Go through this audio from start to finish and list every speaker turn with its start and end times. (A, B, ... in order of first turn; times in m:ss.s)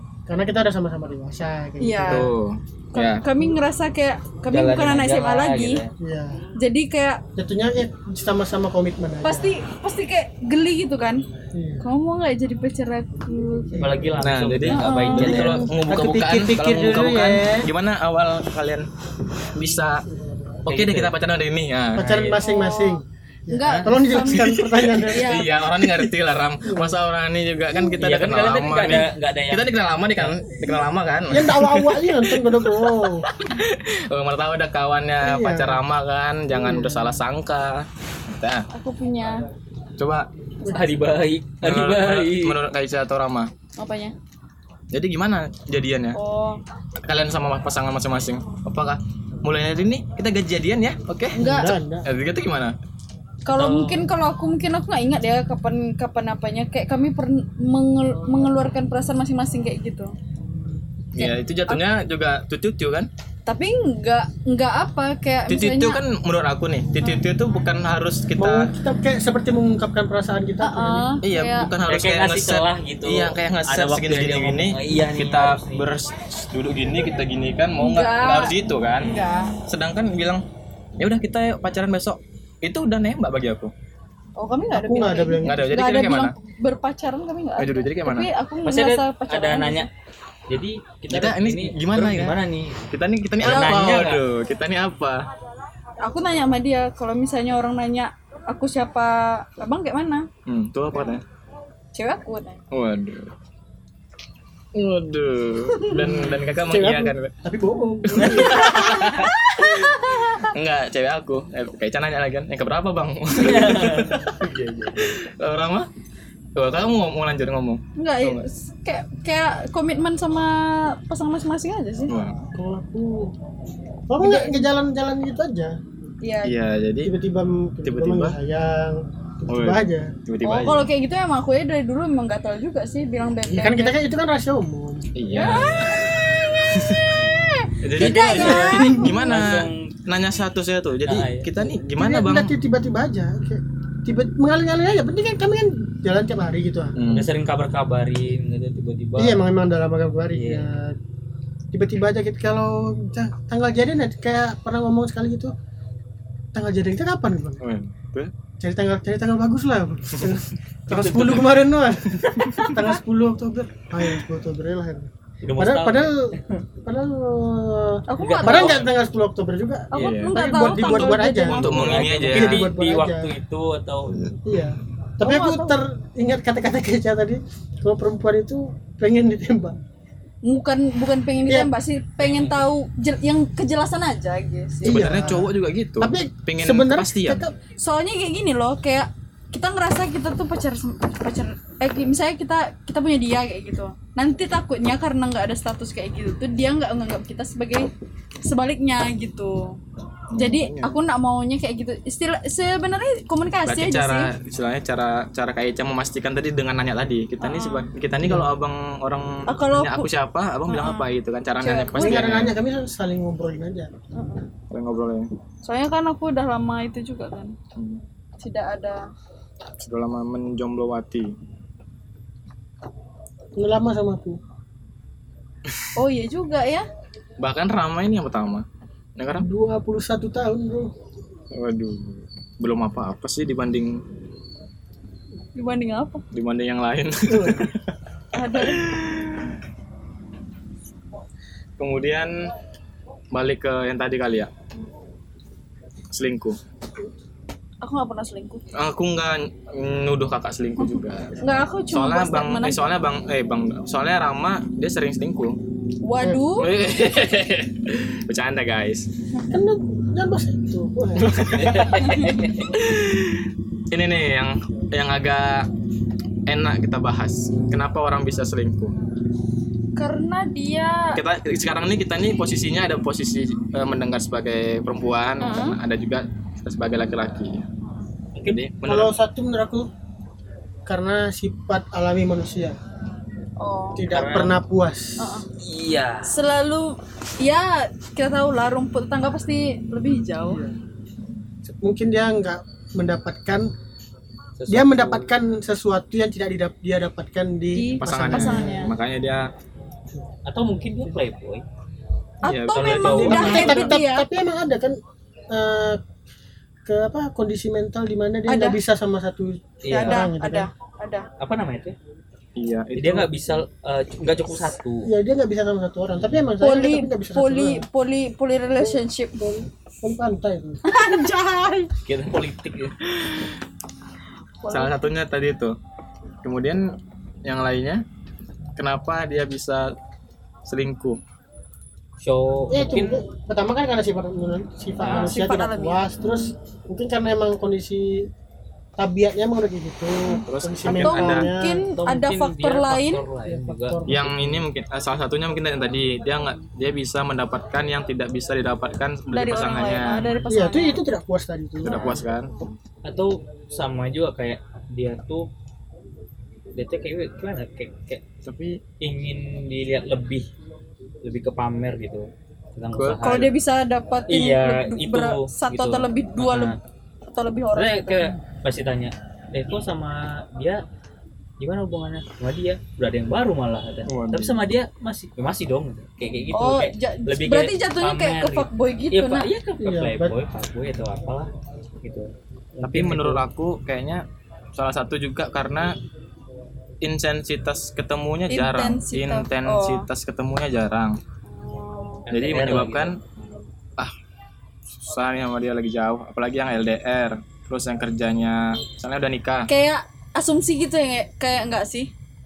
0:00.3-0:02.3 A
0:01.8-0:02.3 B
0:02.1-0:03.2 C
0:02.9-0:05.8 B
0:04.5-0:05.9 D
0:06.0-0:06.4 A
0:06.6-0:07.2 B
0:07.4-0:09.5 A
0:09.2-0:11.2 B
0:11.5-0:11.8 A
0:11.8-0:13.8 B
0:13.7-0:14.1 A
0:13.8-0:15.7 D
0:14.2-0:18.9 C
0:14.6-0:15.7 B
0:15.7-0:17.7 A
0:19.5-0:20.0 C
0:20.6-0:22.1 C
0:20.7-0:21.1 D
0:22.0-0:26.1 A
0:22.0-0:22.4 D
0:22.4-0:23.0 B
0:23.5-0:25.5 B
0:24.2-0:38.6 C
0:26.6-0:26.9 A
0:28.0-0:30.4 D
0:31.3-0:33.3 A
0:35.2-0:35.8 A
0:36.5-0:37.2 A
0:38.7-0:39.4 B
0:40.0-0:40.3 C
0:40.7-0:42.6 D
0:41.6-0:43.5 C
0:43.8-0:44.1 B
0:44.9-0:46.2 C
0:46.1-0:46.6 B
0:47.0-0:52.7 C
0:51.3-0:51.8 B
0:51.4-0:52.1 A
0:53.4-1:00.1 B
0:53.5-0:54.1 D
1:01.1-1:03.1 C
1:01.2-1:01.8 B
1:03.4-1:06.0 B
1:05.5-1:08.7 C
1:08.4-1:11.1 A
1:10.6-1:11.7 B
1:11.2-1:20.4 C
1:11.8-1:15.9 D
1:17.8-1:19.6 B
1:21.0-1:23.7 C
1:24.4-1:29.9 B
1:24.7-1:25.7 A
1:25.4-1:26.3 C
1:27.6-1:28.3 C
1:28.6-1:29.9 D
1:30.5-1:32.8 D
1:31.1-1:32.4 C
1:32.9-1:35.2 C
1:33.4-1:34.2 D
1:33.4-1:34.0 B
1:36.0-1:40.3 B
1:40.4-1:41.2 C
1:41.9-1:42.6 B
1:42.7-1:43.3 C
1:44.7-1:47.3 C
1:46.0-1:48.7 A
1:48.0-1:55.9 C
1:48.4-1:50.5 B
1:53.4-1:54.9 D
1:56.6-1:58.5 C
1:58.0-2:02.1 B
2:02.1-2:02.4 C
2:02.5-2:03.3 A
2:04.1-2:05.8 A
2:04.2-2:04.6 B
2:06.2-2:06.5 B
2:06.4-2:07.1 C
2:07.0-2:10.1 A
2:07.8-2:08.4 C
2:09.5-2:10.9 C
2:10.4-2:14.0 B
2:13.5-2:15.1 A
2:15.2-2:16.1 C
2:15.3-2:19.3 B
2:16.7-2:17.2 C
2:17.8-2:22.5 C
2:18.0-2:19.9 D
2:21.0-2:21.5 D
2:22.0-2:26.9 A
2:27.0-2:27.3 C
2:27.1-2:29.4 D
2:29.2-2:31.0 A
2:30.3-2:30.6 D
2:31.7-2:35.5 A
2:36.5-2:37.6 A
2:37.6-2:38.3 C
2:38.6-2:53.3 A
2:40.9-2:41.5 D
2:45.4-2:46.6 D
2:48.1-2:48.8 B
2:48.2-2:48.9 D
2:49.9-2:52.1 B
2:49.9-2:52.7 C
2:51.6-2:54.1 D
2:54.4-2:59.8 A
2:55.2-2:55.8 B
3:00.4-3:05.0 B
3:01.5-3:01.7 A
3:02.2-3:02.6 D
3:04.8-3:07.5 A
3:04.8-3:07.4 C
3:07.8-3:17.9 B
3:18.4-3:19.8 B
3:20.3-3:21.0 C
3:20.3-3:24.3 B
3:23.6-3:32.5 C
3:27.4-3:27.9 B
3:28.2-3:28.5 A
3:29.5-3:30.1 B
3:30.7-3:31.0 B
3:31.6-3:32.3 B
3:32.0-3:33.9 A
3:34.1-3:34.5 B
3:34.7-3:35.3 C
3:35.6-3:37.6 B
3:37.7-3:38.0 C
3:38.4-3:39.0 B
3:39.8-3:41.3 C
3:43.6-3:44.4 A
3:45.9-3:46.8 B
3:47.4-3:48.6 C
3:49.2-3:49.5 C
3:49.4-3:50.9 A
3:51.5-3:54.0 C
3:55.5-3:56.2 B
3:56.3-3:57.8 C
3:57.3-3:57.7 A
3:58.3-3:58.8 B
3:58.5-3:59.6 C
4:01.8-4:02.5 C
4:03.3-4:04.5 C
4:06.1-4:06.6 C
4:07.8-4:08.6 B
4:08.7-4:15.6 C
4:10.8-4:12.8 B
4:16.0-4:16.7 B
4:16.6-4:19.1 C
4:19.5-4:21.5 A
4:21.2-4:25.7 C
4:21.5-4:22.5 D
4:26.5-4:28.9 C
4:30.0-4:31.2 B
4:31.1-4:37.6 C
4:35.4-4:35.8 B
4:38.3-4:38.6 D
4:38.4-4:39.1 C
4:38.8-4:39.9 A
4:40.9-4:42.8 A
4:43.6-4:44.0 B
4:43.9-4:45.4 A
4:44.1-4:44.6 D
4:45.2-4:45.5 B
4:45.6-4:46.3 D
4:46.2-4:50.6 B
4:50.4-4:50.7 A
4:51.6-4:53.7 A
4:54.6-4:55.3 D
4:54.7-4:58.9 A
4:57.7-4:58.9 B
4:58.0-4:59.5 C
5:00.4-5:01.6 D
5:02.4-5:03.9 C
5:02.4-5:04.2 B
5:02.7-5:03.9 D
5:03.1-5:05.0 A
5:05.5-5:06.0 A
5:06.8-5:10.7 A
5:08.5-5:08.8 B
5:09.8-5:10.3 D
5:09.9-5:11.3 B
5:11.4-5:12.0 D
5:12.6-5:13.3 C
5:13.0-5:15.1 D
5:15.0-5:17.8 A
5:16.6-5:19.4 B
5:18.8-5:20.8 A
5:20.9-5:21.9 B
5:22.0-5:23.0 D
5:23.1-5:23.5 C
5:24.6-5:25.0 B
5:24.7-5:25.7 C
5:26.4-5:26.9 C
5:27.4-5:28.0 C
5:28.8-5:29.9 C
5:30.6-5:31.2 C
5:32.2-5:33.2 D
5:32.7-5:38.3 A
5:35.0-5:35.4 D
5:35.0-5:36.5 B
5:39.0-5:41.8 A
5:40.4-5:41.5 C
5:40.8-5:43.2 B
5:41.9-5:44.0 D
5:43.4-5:44.6 A
5:44.1-5:50.3 C
5:49.3-5:51.0 B
5:50.5-5:52.2 A
5:51.8-5:52.5 C
5:51.8-5:52.7 B
5:53.0-5:55.5 D
5:56.7-5:58.2 D
5:58.4-5:58.8 C
5:59.0-6:00.5 D
6:01.2-6:03.5 D
6:03.0-6:03.5 C
6:03.2-6:06.7 B
6:04.3-6:06.8 D
6:07.3-6:08.3 B
6:07.7-6:10.8 D
6:11.6-6:21.5 D
6:14.0-6:14.6 C
6:16.5-6:19.5 B
6:19.8-6:20.3 A
6:22.0-6:23.4 D
6:22.8-6:26.0 C
6:27.0-6:31.2 C
6:28.5-6:30.1 B
6:31.4-6:32.2 B
6:32.3-6:33.1 D
6:32.3-6:33.2 C
6:35.0-6:39.7 C
6:39.7-6:42.1 B